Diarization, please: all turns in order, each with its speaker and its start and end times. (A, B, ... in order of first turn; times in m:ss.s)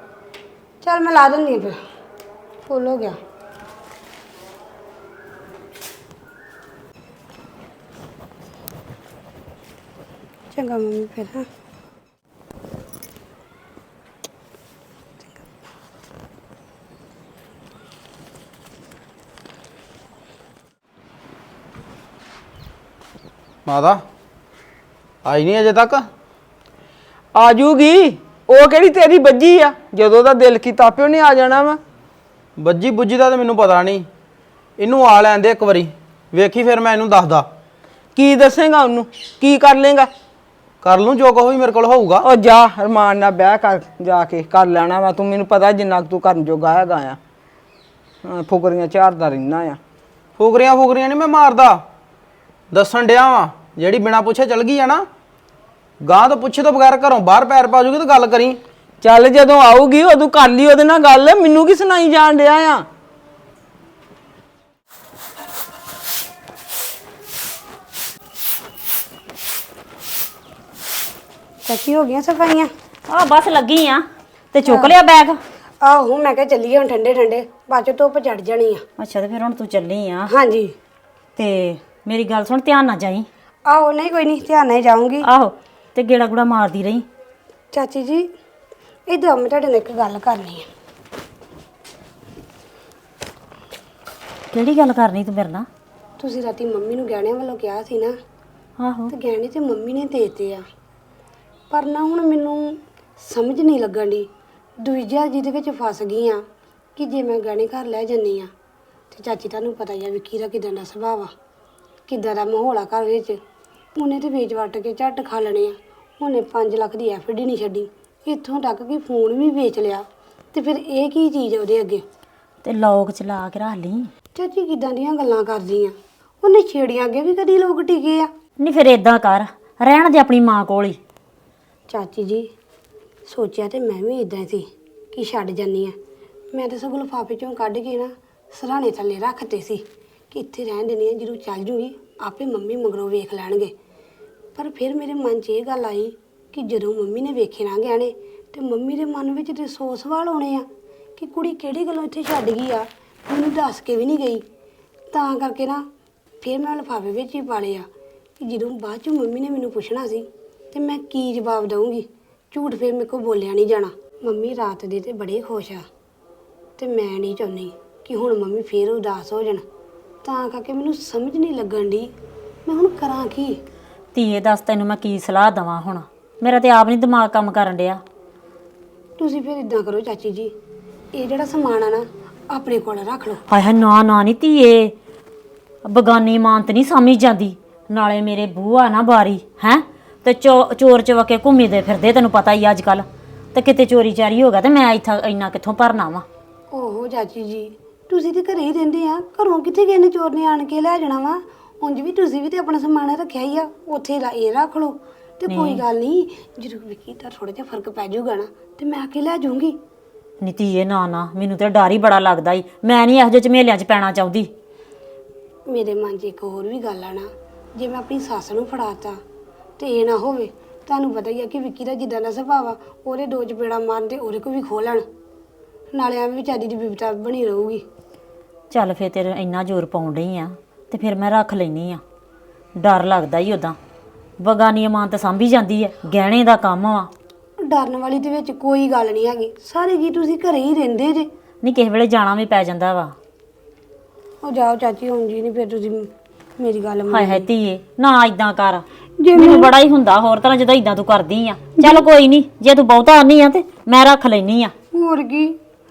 0:00.8-0:01.8 A
0:02.6-0:03.2 A
0:10.5-0:11.5 A
0:23.6-0:24.0 B
0:25.2-0:26.1 B
0:27.3-0:31.8 C
0:32.6-0:34.1 B
0:34.8-0:37.5 B
0:38.2-0:40.1 C
0:40.8-0:42.2 B
0:42.2-0:47.2 C
0:48.2-0:49.8 C
0:50.4-0:51.8 B
0:52.7-0:55.0 B
0:56.0-0:58.6 B
0:59.0-1:02.8 C
1:11.6-1:12.7 A
1:13.1-1:15.4 D
1:14.6-1:14.9 A
1:15.8-1:18.8 A
1:19.0-1:20.3 D
1:20.3-1:20.7 A
1:21.4-1:23.3 D
1:23.7-1:25.2 A
1:25.2-1:27.0 D
1:27.7-1:28.3 A
1:29.1-1:30.7 A
1:34.5-1:35.7 D
1:36.2-1:38.1 A
1:38.8-1:39.1 D
1:39.1-1:40.6 A
1:41.7-1:44.3 A
1:44.8-1:46.4 A
1:47.0-1:48.5 A
1:49.1-1:51.3 A
1:52.1-1:53.4 A
1:54.0-2:02.0 A
2:02.6-2:04.1 D
2:04.4-2:08.3 A
2:08.6-2:11.0 D
2:11.9-2:12.5 A
2:13.3-2:16.0 A
2:16.5-2:23.7 A
2:24.6-2:34.4 A
2:35.1-2:35.8 A
2:36.4-2:37.9 A
2:38.4-2:45.9 A
2:46.8-2:49.6 A
2:50.2-2:52.1 A
2:52.6-2:53.6 A
2:54.1-2:58.0 D
2:59.2-3:00.5 A
3:01.1-3:03.4 A
3:03.5-3:04.9 D
3:05.8-3:16.2 D
3:16.7-3:29.8 A
3:25.5-3:25.8 D
3:30.4-3:34.5 D
3:35.7-3:39.2 A
3:39.8-3:45.0 A
3:45.9-3:47.8 A
3:48.7-3:52.0 D
3:52.8-3:53.8 D
3:54.4-3:57.1 D
3:57.6-4:01.3 A
4:01.6-4:03.1 D
4:04.4-4:07.5 A
4:07.1-4:14.7 D
4:09.2-4:09.7 A
4:11.8-4:12.0 A
4:14.9-4:15.6 A